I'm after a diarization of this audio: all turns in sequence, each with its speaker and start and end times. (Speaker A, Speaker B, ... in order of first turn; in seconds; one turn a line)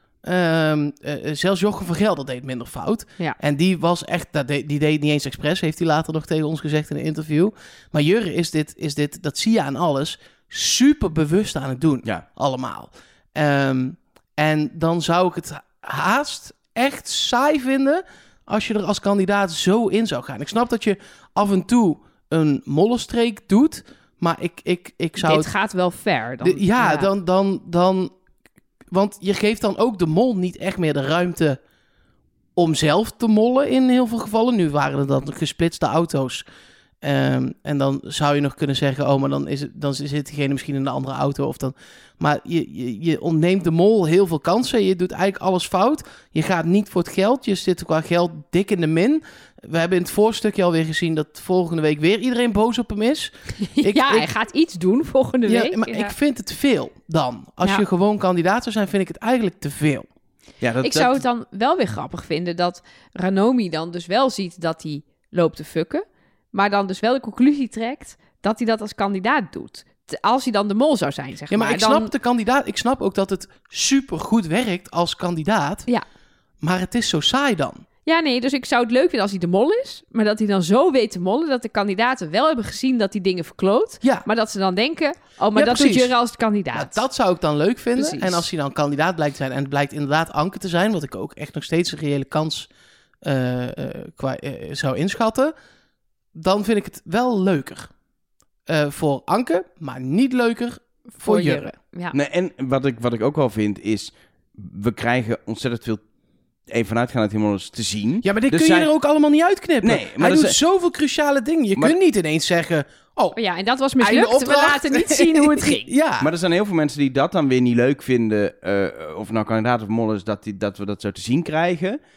Speaker A: 0.2-25.5
Speaker B: 25.2-27.1
Speaker A: 26.4-28.1
Speaker A: 28.9-31.6
Speaker A: 32.5-36.4
Speaker A: 37.0-54.3
Speaker B: 53.6-56.1
Speaker A: 55.5-60.1
Speaker C: 60.6-61.2
Speaker B: 60.8-72.1
Speaker A: 71.5-75.9
Speaker A: 76.6-77.8
Speaker B: 78.0-87.0
Speaker A: 85.5-86.1
Speaker A: 86.7-92.7
Speaker B: 88.0-88.4
Speaker A: 93.2-95.5
Speaker A: 96.3-97.9
Speaker A: 98.7-101.7
Speaker B: 101.1-102.1
Speaker C: 102.1-106.0
Speaker C: 106.7-108.9
Speaker A: 108.2-113.4
Speaker C: 109.8-110.6
Speaker B: 113.3-115.9
Speaker A: 114.0-116.3
Speaker C: 116.2-122.0